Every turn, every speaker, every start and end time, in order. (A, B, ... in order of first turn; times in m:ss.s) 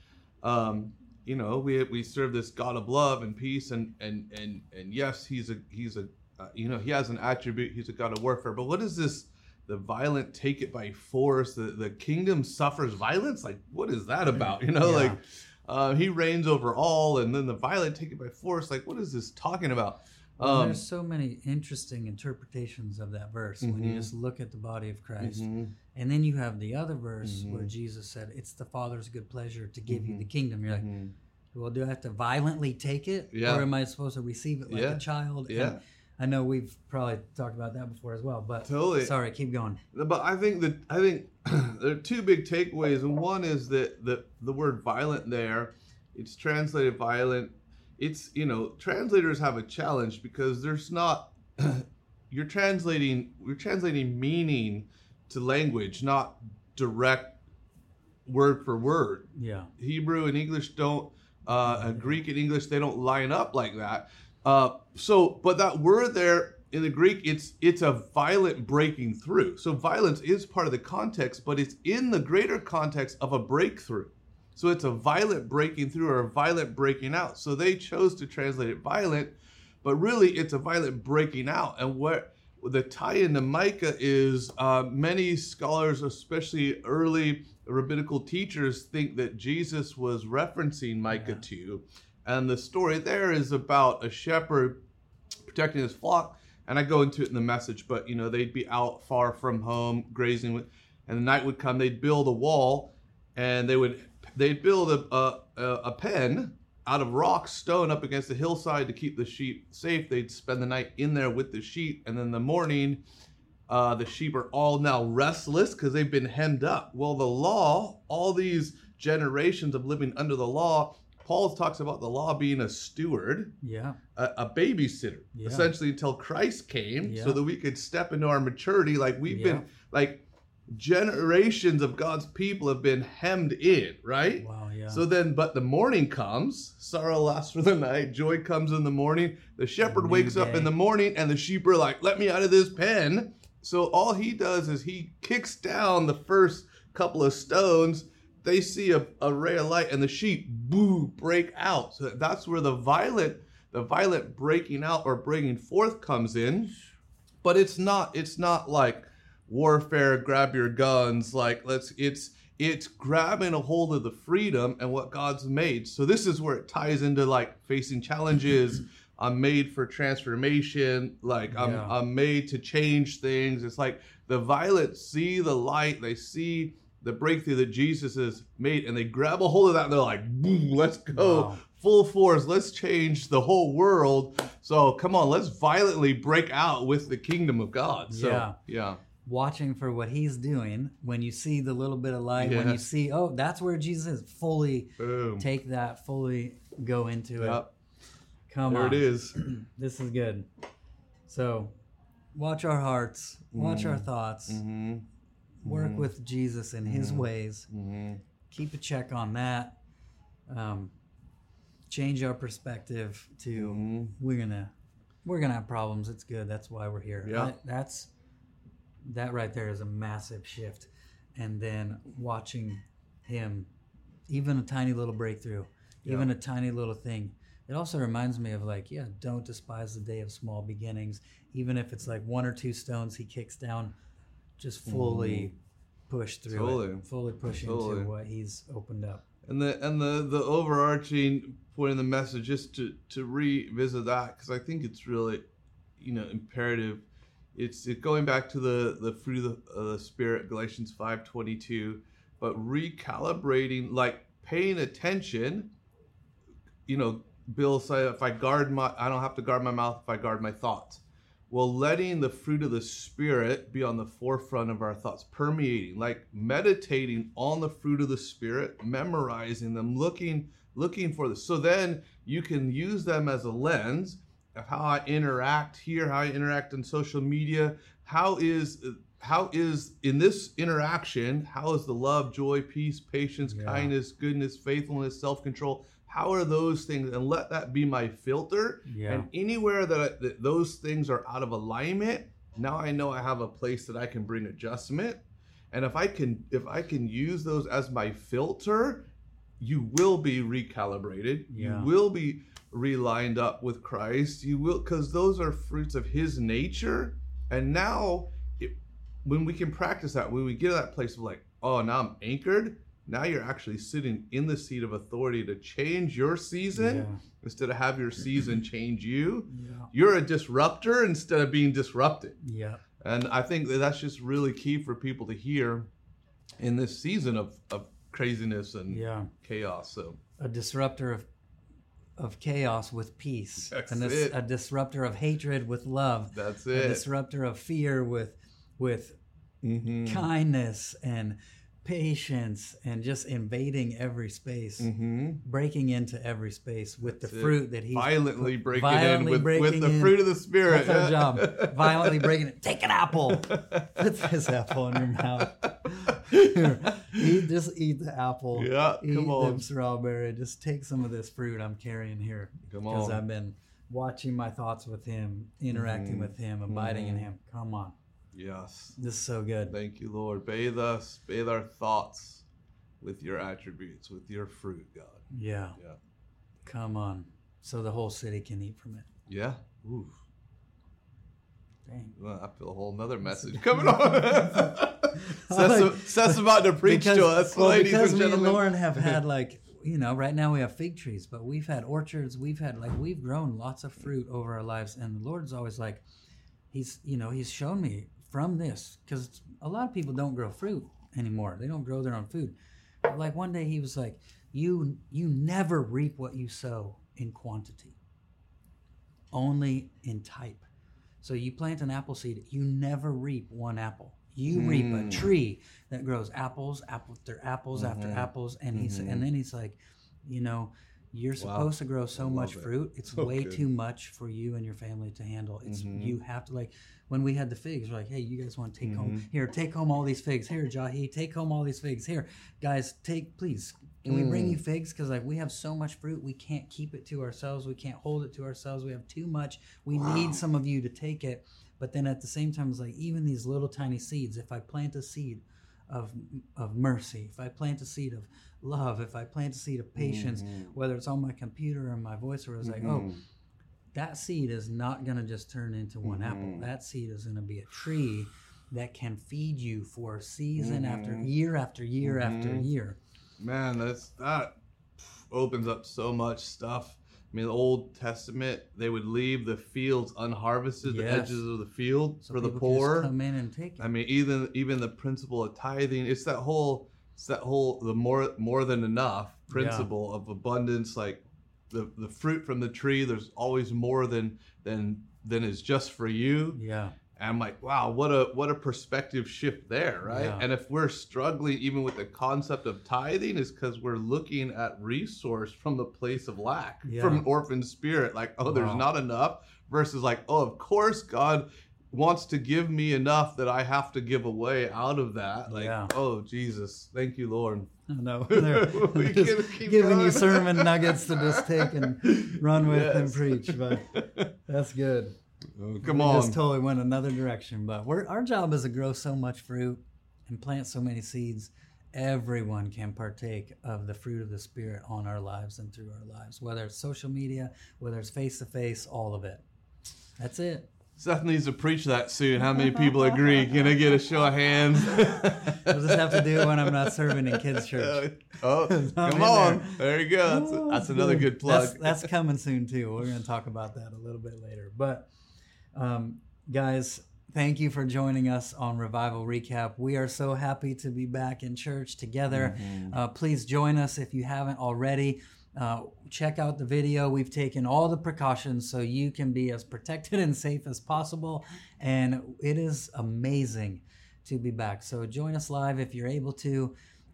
0:00.4-0:20.8 A
0:14.8-0:15.2 B
0:20.4-0:30.9 B
0:23.6-0:24.1 A
0:25.2-0:25.7 A
0:27.2-0:27.7 A
0:29.9-0:31.1 A
0:31.5-0:39.8 B
0:33.3-0:33.7 A
0:34.7-0:35.8 A
0:38.6-0:39.2 A
0:39.9-0:57.4 A
0:58.2-1:34.8 A
0:59.4-0:59.7 B
1:01.7-1:02.2 B
1:31.1-1:31.4 B
1:35.4-1:53.0 A
1:53.7-2:03.6 A
2:03.6-2:04.0 B
2:04.2-2:36.8 A
2:05.3-2:05.7 B
2:07.0-2:07.4 B
2:09.3-2:09.7 B
2:14.4-2:15.0 B
2:19.8-2:20.7 B
2:37.4-3:09.0 A
2:51.5-2:52.0 B
3:01.1-3:01.6 B
3:08.1-3:08.6 B
3:09.2-3:17.7 B
3:12.4-3:12.8 A
3:15.0-3:15.5 A
3:17.4-3:17.7 A
3:18.5-3:20.5 B
3:18.7-3:19.4 A
3:21.2-3:21.7 B
3:22.3-3:24.6 B
3:23.5-3:25.1 A
3:25.6-3:27.7 B
3:25.6-3:26.1 A
3:26.8-3:28.2 A
3:28.5-3:29.8 B
3:30.5-3:30.9 B
3:31.9-3:34.7 B
3:33.5-3:34.1 A
3:35.2-3:38.1 B
3:37.2-3:37.6 A
3:39.0-3:43.7 B
3:44.3-3:54.0 B
3:46.0-3:46.3 A
3:54.6-3:55.5 B
3:54.9-3:55.5 A
3:56.1-3:59.2 B
3:56.5-3:58.1 A
3:59.4-4:05.4 A
4:06.0-4:15.7 A
4:16.9-4:59.1 A
4:43.5-4:43.9 B
4:48.9-4:49.3 B
4:59.6-5:22.4 A
5:01.5-5:01.9 B
5:16.7-5:17.2 B
5:19.5-5:19.9 B
5:22.4-5:22.8 B
5:23.0-5:25.9 A
5:26.6-5:30.2 A
5:28.9-5:29.3 B
5:30.4-5:31.3 B
5:32.2-5:39.2 B
5:33.7-5:34.4 A
5:36.3-5:37.0 A
5:39.6-5:40.3 A
5:40.0-5:44.9 B
5:44.8-5:45.4 A
5:45.4-6:08.0 B
5:47.3-5:52.3 A
5:53.3-5:54.0 A
5:55.0-5:57.3 A
5:58.5-5:59.7 A
6:02.7-6:03.2 A
6:05.7-6:07.3 A
6:08.3-6:09.0 A
6:09.0-6:09.8 B
6:09.7-6:12.4 A
6:13.0-6:15.3 A
6:15.3-6:15.8 B
6:16.6-6:19.1 B
6:19.3-6:20.2 A
6:21.8-6:22.2 B
6:22.2-6:29.2 A
6:23.2-6:36.0 B
6:36.7-6:48.0 B
6:49.3-6:50.7 B
6:51.2-7:33.2 B
6:54.5-6:55.3 A
6:57.8-6:59.2 A
7:01.4-7:03.6 A
7:05.7-7:06.2 A
7:08.8-7:09.3 A
7:14.0-7:14.6 A
7:30.0-7:30.7 A
7:32.6-7:33.2 A
7:33.9-7:43.0 B
7:36.0-7:36.7 A
7:40.6-7:41.3 A
7:42.0-7:42.7 A
7:43.4-7:53.1 A
7:50.8-7:51.4 B
7:52.2-7:53.9 B
7:53.8-8:06.6 A
7:59.5-7:59.9 B
8:06.5-8:07.0 B
8:07.2-8:27.7 A
8:10.1-8:10.5 B
8:16.9-8:17.2 B
8:18.5-8:18.9 B
8:25.5-8:25.9 B
8:27.9-8:35.2 B
8:28.3-8:34.3 A
8:35.5-8:36.4 A
8:35.8-8:49.4 B
8:50.2-8:50.7 B
8:51.0-9:02.1 A
8:55.0-9:05.1 B
9:05.7-9:26.8 B
9:12.3-9:13.0 A